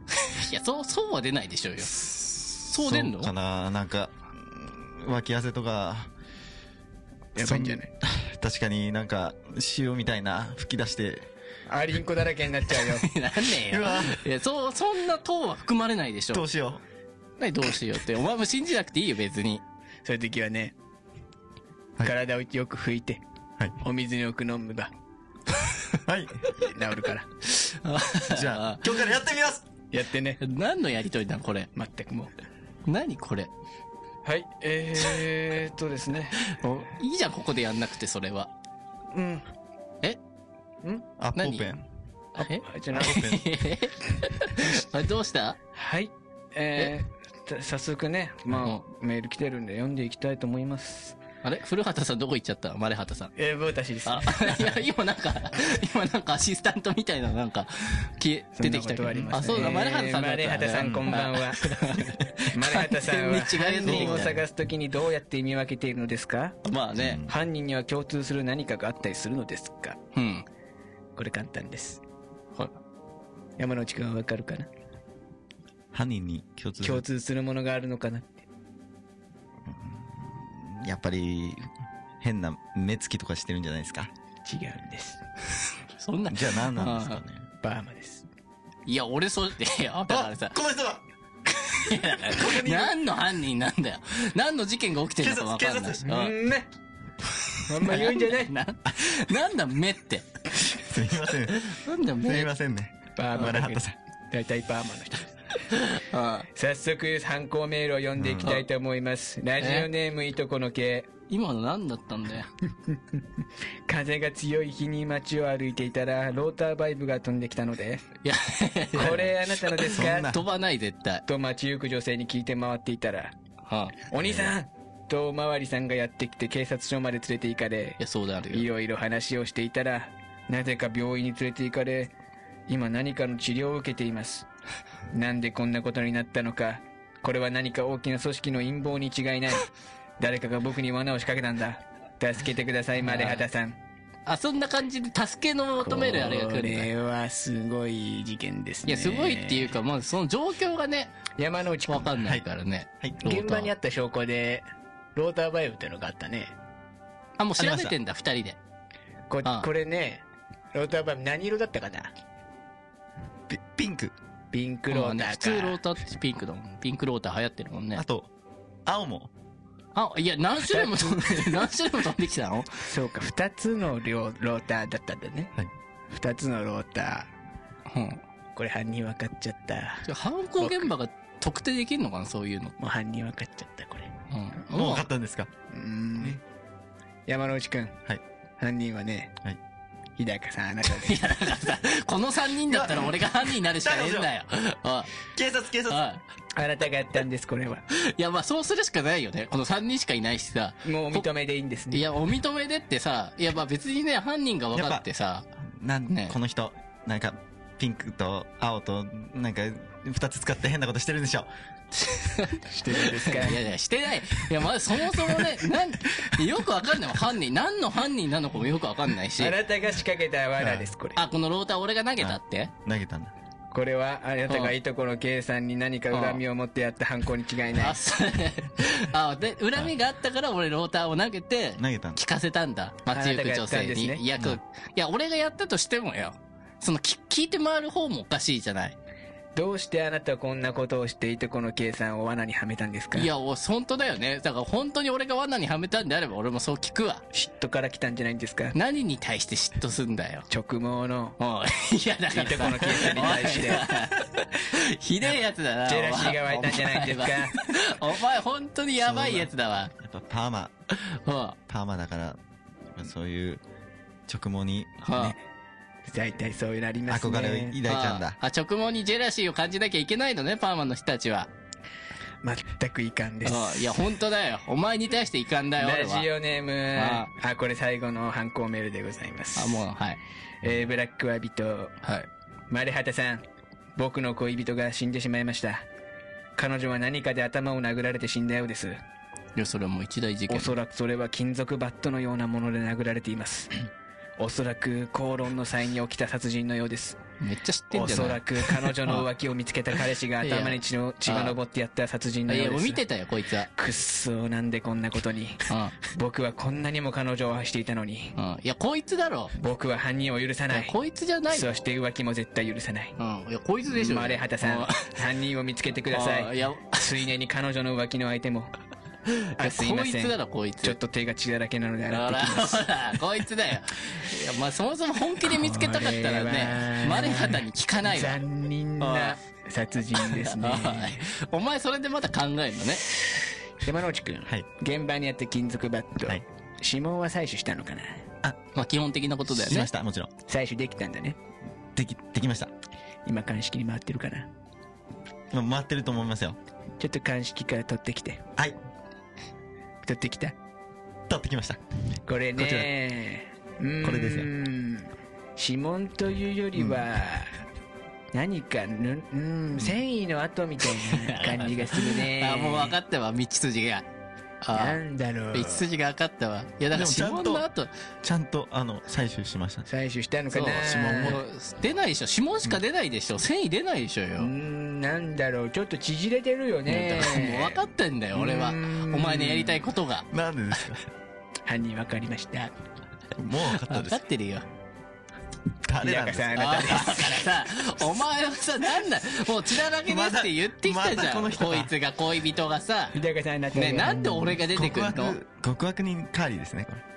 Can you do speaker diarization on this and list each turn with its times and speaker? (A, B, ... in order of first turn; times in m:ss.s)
0:00.2-0:03.3 A
0:02.0-0:06.1 B
0:07.4-0:07.9 C
0:07.4-0:11.3 B
0:11.7-0:13.1 C
0:12.8-0:16.4 A
0:13.6-0:14.2 B
0:16.3-0:16.8 B
0:17.4-0:19.6 A
0:20.0-0:20.7 C
0:22.0-0:23.2 C
0:23.8-0:24.9 C
0:26.0-0:26.5 B
0:26.6-0:27.3 C
0:27.5-0:29.0 A
0:28.2-0:29.7 B
0:29.9-0:30.4 C
0:30.4-0:31.7 A
0:31.8-0:32.3 C
0:32.9-0:33.5 A
0:34.2-0:36.4 C
0:36.4-0:38.5 A
0:39.1-0:39.4 C
0:41.2-0:41.9 B
0:41.4-0:41.7 A
0:42.4-0:45.6 A
0:42.4-0:43.3 C
0:42.9-0:43.4 B
0:45.8-0:51.2 C
0:48.6-0:48.8 A
0:51.4-0:53.3 A
0:53.4-0:54.7 C
0:54.0-1:04.4 A
0:58.6-1:01.8 C
1:00.8-1:01.1 B
1:02.5-1:06.6 C
1:03.9-1:04.3 B
1:06.6-1:07.2 A
1:07.0-1:07.4 B
1:07.3-1:10.0 C
1:10.2-1:10.4 A
1:11.2-1:12.0 C
1:13.6-1:14.7 C
1:15.9-1:17.0 B
1:16.8-1:18.5 C
1:19.6-1:21.7 B
1:22.2-1:24.1 B
1:24.5-1:25.2 C
1:26.0-1:27.2 A
1:26.3-1:27.5 B
1:27.6-1:28.2 C
1:28.9-1:30.6 A
1:30.1-1:31.0 B
1:31.6-1:36.4 A
1:32.3-1:32.9 B
1:35.2-1:36.1 B
1:36.0-1:36.7 C
1:37.7-1:38.5 C
1:37.8-1:40.2 A
1:40.6-1:44.0 B
1:41.5-1:42.5 A
1:43.2-1:45.6 C
1:45.7-1:46.5 A
1:46.6-1:51.1 C
1:48.2-1:48.5 B
1:49.6-1:49.9 A
1:51.3-1:52.5 A
1:53.9-1:58.1 C
1:58.2-2:01.2 A
1:58.9-2:00.4 C
1:59.9-2:00.4 B
2:01.3-2:03.4 C
2:03.7-2:04.0 A
2:04.1-2:08.0 C
2:04.2-2:04.5 B
2:08.0-2:08.7 A
2:08.5-2:12.1 C
2:12.7-2:14.5 C
2:15.1-2:23.8 C
2:23.0-2:23.4 A
2:24.3-2:26.9 A
2:25.8-2:29.8 C
2:28.9-2:31.1 A
2:31.4-2:32.1 C
2:31.9-2:33.7 A
2:32.2-2:32.4 B
2:33.2-2:36.5 C
2:37.4-2:38.6 A
2:37.6-2:38.0 B
2:39.3-2:42.1 C
2:43.5-2:44.2 B
2:44.5-2:45.8 C
2:44.9-2:48.0 A
2:48.0-2:48.3 B
2:48.9-2:49.3 B
2:50.0-2:52.8 A
2:50.7-2:51.6 C
2:52.9-2:55.5 C
2:56.1-2:57.3 C
2:57.9-2:58.2 A
2:58.6-3:00.1 C
3:00.1-3:02.7 A
3:00.6-3:00.9 C
3:02.8-3:04.2 C
3:04.3-3:05.0 A
3:04.7-3:05.5 B
3:05.7-3:06.4 C
3:07.3-3:08.0 C
3:08.6-3:09.4 C
3:10.2-3:11.3 C
3:11.0-3:15.1 A
3:12.7-3:13.1 B
3:13.7-3:14.3 B
3:15.3-3:16.0 B
3:15.9-3:16.2 A
3:16.6-3:17.8 C
3:17.9-3:21.3 A
3:20.8-3:22.1 C
3:21.9-3:25.5 A
3:24.7-3:25.0 B
3:25.6-3:31.5 B
3:26.1-3:26.3 A
3:32.0-3:39.6 A
3:32.7-3:33.6 C
3:39.4-3:41.2 C
3:41.2-3:42.7 A
3:42.2-3:43.3 B
3:43.7-3:48.0 C
3:44.5-3:44.7 A
3:46.1-3:46.4 A
3:47.8-3:59.0 A
3:51.8-3:52.2 B
3:53.1-3:54.3 C
3:59.6-4:03.3 C
4:03.2-4:07.2 A
4:07.3-4:08.8 C
4:08.7-4:10.5 A
4:10.5-4:11.4 C
4:11.4-4:19.9 A
4:12.3-4:13.9 C
4:15.3-4:17.6 C
4:19.0-4:20.7 B
4:21.0-4:21.6 A
4:21.7-4:22.4 B
4:22.9-4:23.6 B
4:24.3-4:25.1 B
4:25.0-4:25.4 A
4:26.1-4:27.8 C
4:27.1-4:28.4 B
4:27.9-4:31.5 A
4:32.4-4:34.0 C
4:33.4-4:36.3 A
4:35.8-4:39.8 C
4:37.0-4:37.3 A
4:39.6-4:40.2 A
4:40.6-4:42.0 C
4:42.7-4:43.4 C
4:44.0-4:45.9 C
4:46.6-4:49.0 C
4:49.6-4:50.7 A
4:50.5-4:53.8 C
4:54.4-4:57.2 C
4:57.4-4:59.3 A
4:57.9-5:03.0 C
5:00.4-5:01.6 A
5:02.5-5:03.7 A
5:03.8-5:08.4 C
5:05.7-5:06.0 A
5:08.4-5:09.5 A
5:09.6-5:11.0 C
5:10.7-5:11.7 A
5:11.5-5:13.2 C
5:13.2-5:15.1 A
5:13.9-5:18.7 C
5:16.1-5:17.0 A
5:19.3-5:21.0 A
5:19.6-5:23.0 C
5:22.1-5:28.4 A
5:25.5-5:31.2 C
5:29.0-5:29.4 A
5:30.2-5:33.1 A
5:33.8-5:38.3 C
5:38.8-5:39.9 A
5:39.5-5:40.3 B
5:40.5-5:41.4 C
5:41.9-5:42.7 B
5:43.3-5:44.5 C
5:45.5-5:46.6 B
5:47.0-5:48.4 C
5:50.0-5:50.6 C
5:51.3-5:51.8 B
5:52.3-5:57.6 C
5:52.6-5:52.9 B
5:54.0-5:54.5 B
5:58.3-6:03.0 C
6:01.0-6:04.0 A
6:04.6-6:05.0 A
6:04.7-6:05.8 C
6:05.5-6:07.9 A
6:06.9-6:07.6 B
6:08.2-6:09.9 B
6:09.9-6:11.4 C
6:10.5-6:14.5 A
6:10.7-6:11.4 B
6:14.4-6:17.8 C
6:16.9-6:20.3 A
6:18.3-6:19.8 C
6:20.3-6:21.0 B
6:21.7-6:22.7 C
6:23.4-6:24.2 B
6:23.8-6:24.6 A
6:25.8-6:27.0 B
6:26.0-6:27.6 C
6:26.6-6:33.2 A
6:30.0-6:31.9 B
6:33.1-6:34.6 C
6:33.7-6:35.4 A
6:34.7-6:37.0 B